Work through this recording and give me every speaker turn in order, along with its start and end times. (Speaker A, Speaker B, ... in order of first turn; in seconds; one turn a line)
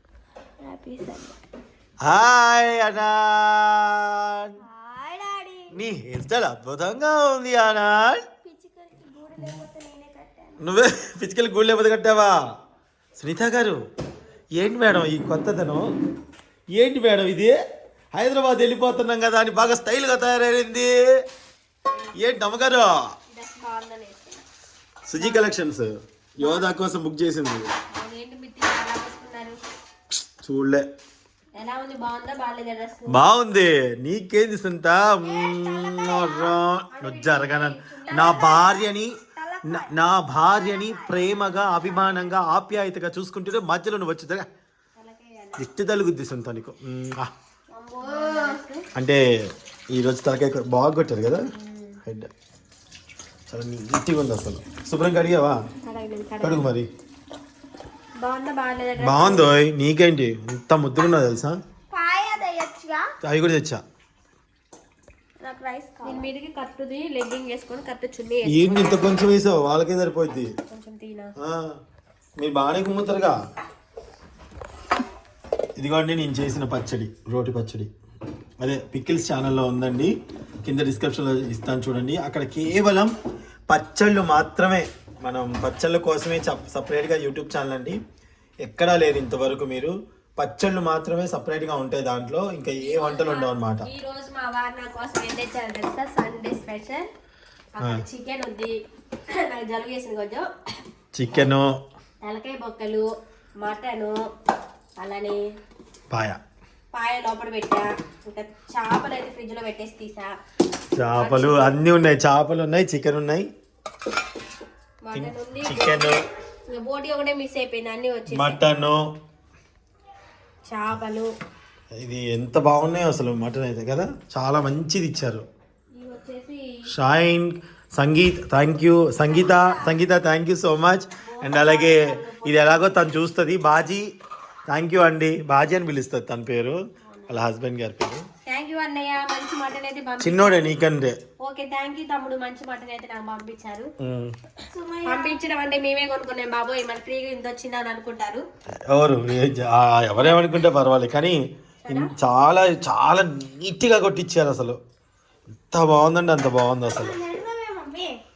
Speaker A: 0.6-1.4
Speaker B: 2.0-4.5
Speaker A: 4.6-5.8
Speaker B: 5.7-8.2
Speaker A: 8.4-10.6
Speaker B: 10.6-12.4
Speaker B: 13.2-13.8
Speaker B: 14.6-15.9
Speaker B: 16.7-17.5
Speaker B: 18.1-21.2
Speaker C: 21.9-22.2
Speaker B: 22.1-22.9
Speaker C: 23.3-24.4
Speaker B: 25.1-27.7
Speaker C: 25.2-25.5
Speaker C: 26.4-26.7
Speaker C: 27.9-29.6
Speaker B: 30.4-30.9
Speaker C: 31.6-33.2
Speaker B: 33.1-44.5
Speaker A: 35.5-36.3
Speaker C: 36.9-38.4
Speaker A: 37.8-38.8
Speaker A: 39.4-41.8
Speaker C: 45.0-45.7
Speaker B: 45.6-47.3
Speaker A: 47.7-48.6
Speaker C: 48.0-48.9
Speaker B: 49.0-49.2
Speaker B: 49.9-51.5
Speaker C: 51.5-52.0
Speaker B: 53.5-55.6
Speaker C: 55.8-56.7
Speaker B: 56.4-56.9
Speaker C: 58.2-59.5
Speaker B: 59.0-61.6
Speaker A: 61.9-63.1
Speaker B: 63.2-63.8
Speaker A: 65.4-66.3
Speaker C: 66.0-69.2
Speaker B: 68.4-70.5
Speaker C: 70.4-71.3
Speaker B: 71.4-71.8
Speaker B: 72.4-73.4
Speaker B: 75.8-77.9
Speaker B: 78.6-83.1
Speaker B: 83.7-88.0
Speaker B: 88.6-93.9
Speaker C: 92.8-97.1
Speaker C: 97.8-98.7
Speaker B: 97.8-98.0
Speaker C: 99.3-100.5
Speaker B: 101.1-101.7
Speaker C: 102.2-103.0
Speaker C: 103.6-104.2
Speaker C: 105.0-105.4
Speaker B: 106.1-106.4
Speaker C: 106.9-110.3
Speaker B: 111.0-113.5
Speaker C: 111.2-111.8
Speaker C: 115.0-118.6
Speaker B: 115.1-116.2
Speaker B: 118.3-119.1
Speaker C: 120.7-121.3
Speaker B: 121.9-125.5
Speaker C: 125.9-126.8
Speaker B: 126.9-134.1
Speaker C: 129.4-129.9
Speaker C: 131.2-133.1
Speaker B: 134.7-138.2
Speaker C: 137.0-137.4
Speaker C: 138.5-140.7
Speaker B: 140.2-141.2
Speaker C: 141.4-143.9
Speaker B: 144.0-144.3
Speaker A: 144.7-145.4
Speaker C: 145.1-148.4
Speaker B: 148.9-151.4
Speaker C: 150.2-150.6
Speaker C: 151.8-152.1
Speaker B: 151.9-154.8
Speaker B: 155.7-157.2
Speaker A: 156.8-158.2